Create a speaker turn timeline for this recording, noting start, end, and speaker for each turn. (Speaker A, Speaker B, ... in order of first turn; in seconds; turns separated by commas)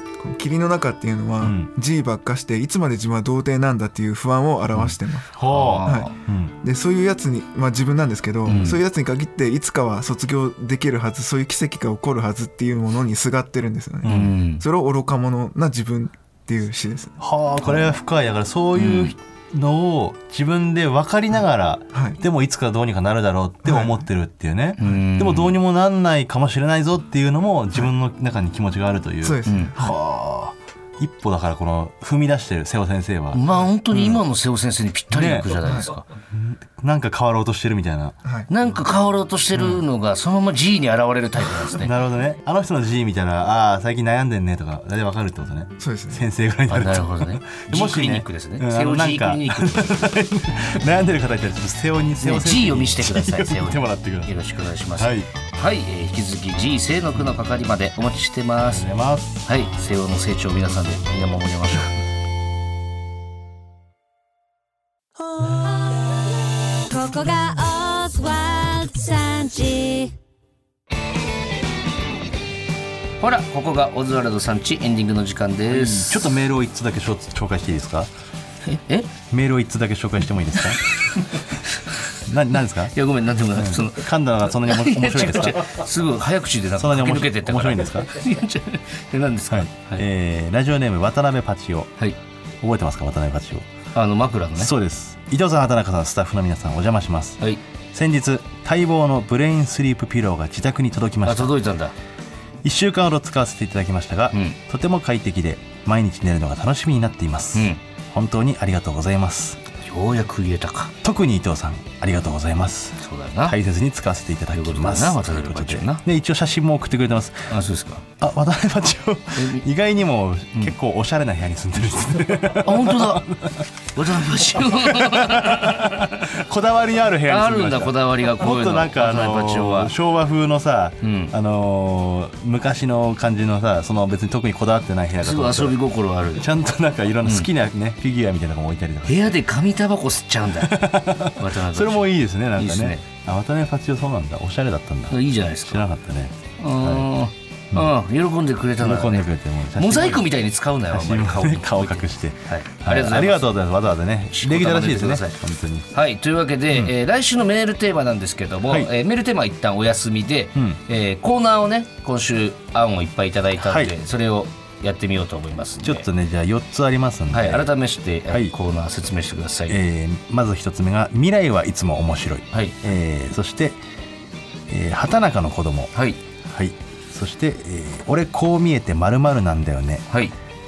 Speaker A: 0.2-5.3, Speaker B: 1.4-1.7, Speaker B: 5.3-6.5, Speaker C: 5.5-6.1, Speaker A: 5.8-6.1, Speaker A: 6.6-17.2, Speaker C: 8.5-8.8, Speaker B: 14.0-14.4, Speaker C: 14.0-14.6, Speaker B: 17.2-34.2, Speaker C: 18.8-19.1, Speaker A: 21.9-22.2, Speaker A: 23.6-24.0, Speaker C: 24.8-25.6, Speaker A: 29.2-30.0, Speaker C: 29.5-29.7, Speaker C: 33.3-36.1, Speaker B: 35.1-38.2, Speaker A: 35.6-35.9, Speaker C: 38.5-41.9, Speaker B: 39.5-39.8, Speaker B: 41.6-54.3, Speaker A: 45.8-46.2, Speaker C: 46.7-50.2, Speaker C: 52.2-58.9, Speaker B: 55.0-55.3, Speaker B: 58.7-59.5, Speaker C: 59.5-61.9, Speaker D: 66.9-70.1, Speaker C: 73.2-76.3, Speaker B: 75.7-78.1, Speaker C: 78.6-79.1, Speaker B: 79.3-80.8, Speaker B: 82.2-82.9, Speaker C: 82.9-90.0, Speaker B: 83.5-85.7, Speaker B: 86.8-88.1, Speaker B: 89.5-92.0, Speaker B: 92.6-93.7, Speaker C: 94.0-94.7, Speaker B: 94.6-101.6, Speaker C: 101.2-101.9, Speaker B: 102.6-109.6, Speaker C: 107.5-107.8, Speaker C: 109.8-110.9, Speaker B: 111.0-117.5, Speaker C: 113.0-113.6, Speaker C: 114.5-116.0, Speaker C: 117.5-118.1, Speaker B: 118.2-123.7, Speaker C: 119.3-119.7, Speaker C: 122.5-123.3, Speaker C: 123.9-126.1, Speaker B: 124.5-135.8, Speaker C: 127.3-129.9, Speaker C: 131.0-131.3, Speaker C: 135.2-136.5, Speaker B: 136.4-139.3, Speaker C: 139.1-143.0, Speaker B: 140.6-147.1, Speaker C: 145.1-145.8, Speaker C: 146.6-153.5, Speaker B: 148.8-150.3, Speaker B: 150.9-155.9, Speaker C: 154.3-155.4, Speaker C: 155.9-166.1, Speaker B: 163.7-163.9, Speaker B: 165.8-167.7, Speaker C: 167.3-169.8, Speaker B: 168.3-168.6, Speaker B: 169.7-173.8, Speaker B: 174.7-175.9, Speaker C: 175.9-176.2, Speaker B: 176.4-180.1, Speaker C: 180.1-180.3